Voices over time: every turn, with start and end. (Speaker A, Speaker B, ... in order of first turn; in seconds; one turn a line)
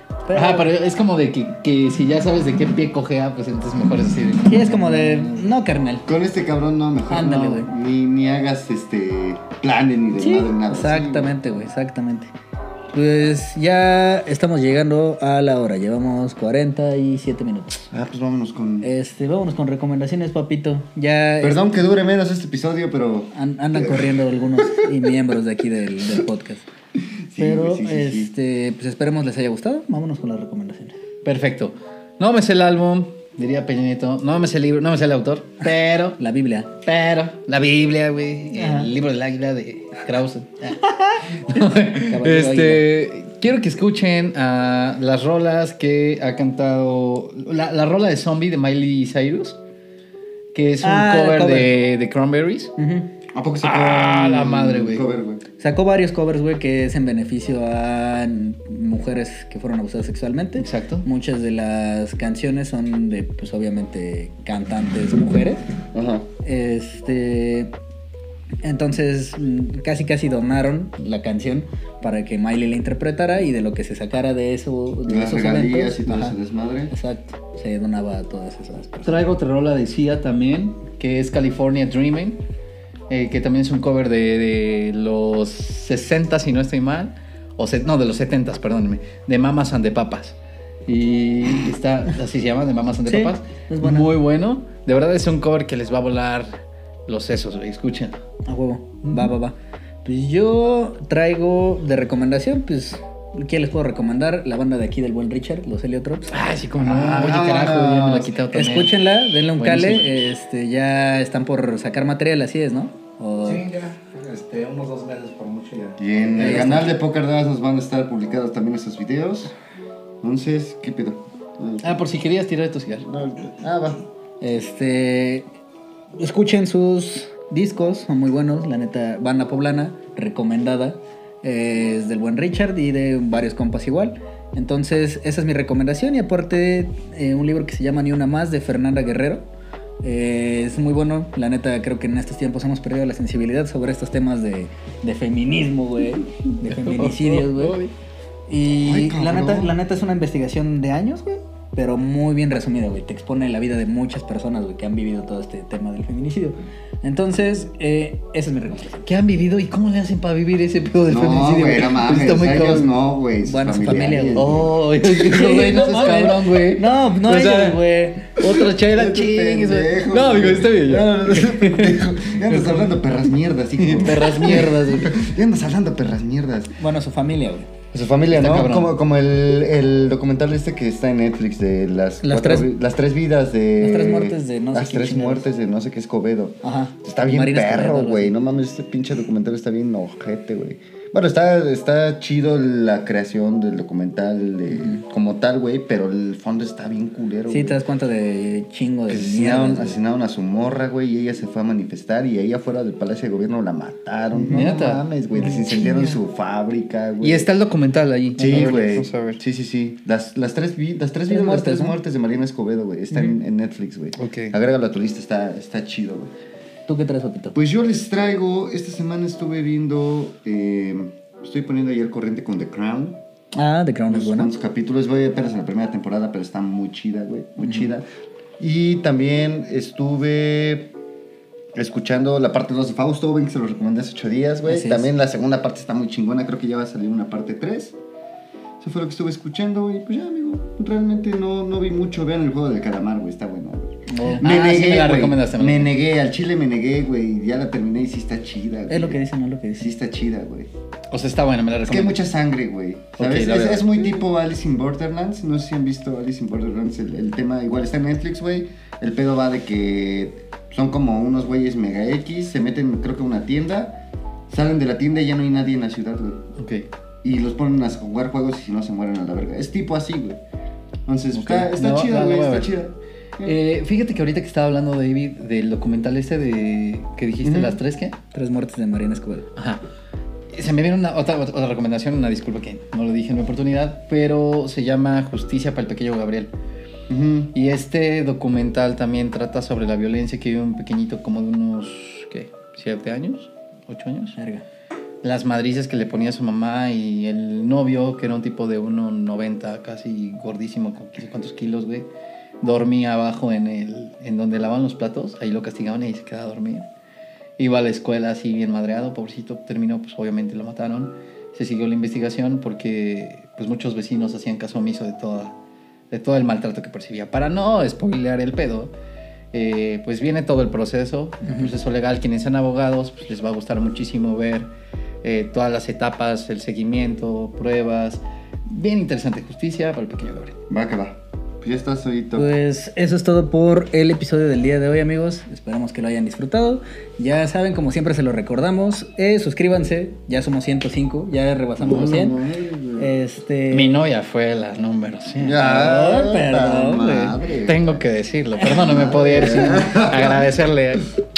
Speaker A: 0.2-0.7
Speaker B: 0.3-5.3
Speaker A: 4.4-6.0
Speaker C: 6.0-11.3
Speaker A: 7.1-7.7
Speaker A: 10.2-12.3
Speaker A: 12.9-17.8
Speaker C: 17.9-18.9
Speaker A: 18.8-21.6
Speaker C: 21.4-24.9
Speaker A: 23.3-26.6
Speaker C: 27.3-28.3
Speaker A: 27.4-31.0
Speaker B: 31.2-36.2
Speaker A: 36.2-36.7
Speaker B: 36.8-49.6
Speaker A: 38.5-38.9
Speaker A: 40.8-42.8
Speaker B: 50.5-52.7
Speaker A: 50.8-51.7
Speaker A: 52.8-53.1
Speaker C: 53.3-55.4
Speaker B: 53.6-55.2
Speaker A: 55.6-65.6
Speaker B: 60.6-61.0
Speaker C: 65.9-66.3
Speaker A: 66.4-67.7
Speaker A: 68.6-76.3
Speaker C: 75.1-76.9
Speaker A: 76.9-79.2
Speaker B: 79.0-82.4
Speaker B: 83.1-98.2
Speaker A: 93.1-94.1
Speaker A: 98.5-106.4
Speaker B: 99.0-99.3
Speaker B: 106.3-110.1
Speaker C: 106.8-108.3
Speaker A: 108.5-113.6
Speaker D: 113.4-116.8
Speaker C: 116.0-119.5
Speaker A: 116.4-116.9
Speaker C: 120.2-121.9
Speaker B: 121.8-123.1
Speaker C: 123.0-124.0
Speaker A: 124.4-125.5
Speaker A: 126.2-139.4
Speaker A: 140.0-147.8
Speaker B: 146.7-147.9
Speaker A: 148.5-159.1
Speaker C: 148.8-149.7
Speaker B: 159.0-162.9
Speaker C: 161.1-164.7
Speaker A: 163.4-168.3
Speaker B: 164.3-173.0
Speaker C: 168.4-176.7
Speaker B: 173.8-175.3
Speaker A: 176.8-177.7
Speaker C: 177.9-197.8
Speaker B: 178.3-178.9
Speaker A: 182.2-182.7
Speaker A: 183.8-185.4
Speaker A: 186.6-188.3
Speaker A: 197.5-200.0
Speaker C: 199.1-207.5
Speaker A: 204.3-204.7
Speaker B: 204.5-205.0
Speaker A: 205.4-206.0
Speaker B: 207.2-209.4
Speaker C: 208.4-216.3
Speaker A: 211.3-211.9
Speaker B: 214.2-214.5
Speaker A: 216.9-217.6
Speaker C: 217.5-223.2
Speaker A: 223.6-224.5
Speaker C: 224.1-228.1
Speaker A: 227.6-227.9
Speaker C: 228.6-230.9
Speaker C: 231.7-237.9
Speaker A: 234.7-235.1
Speaker C: 238.8-249.2
Speaker A: 244.1-244.4
Speaker B: 244.4-245.9
Speaker A: 248.9-249.9
Speaker C: 249.8-250.7
Speaker B: 251.1-252.2
Speaker C: 251.9-266.5
Speaker B: 253.2-254.2
Speaker B: 266.5-266.9
Speaker C: 267.2-270.4
Speaker C: 271.1-273.6
Speaker B: 271.3-272.7
Speaker B: 273.4-278.1
Speaker C: 277.4-277.8
Speaker A: 278.3-279.5
Speaker B: 279.6-279.8
Speaker B: 280.5-286.5
Speaker C: 287.1-287.5
Speaker B: 287.5-294.4
Speaker A: 294.4-294.6
Speaker B: 295.2-302.1
Speaker B: 302.6-306.9
Speaker B: 307.6-315.6
Speaker B: 316.1-318.9
Speaker B: 319.5-324.7
Speaker A: 321.4-321.7
Speaker B: 325.2-330.6
Speaker C: 330.7-332.5
Speaker A: 332.3-342.4
Speaker C: 341.8-343.1
Speaker A: 343.0-343.9
Speaker B: 343.7-345.9
Speaker C: 345.4-348.0
Speaker A: 345.6-347.4
Speaker B: 347.6-351.1
Speaker C: 348.7-350.5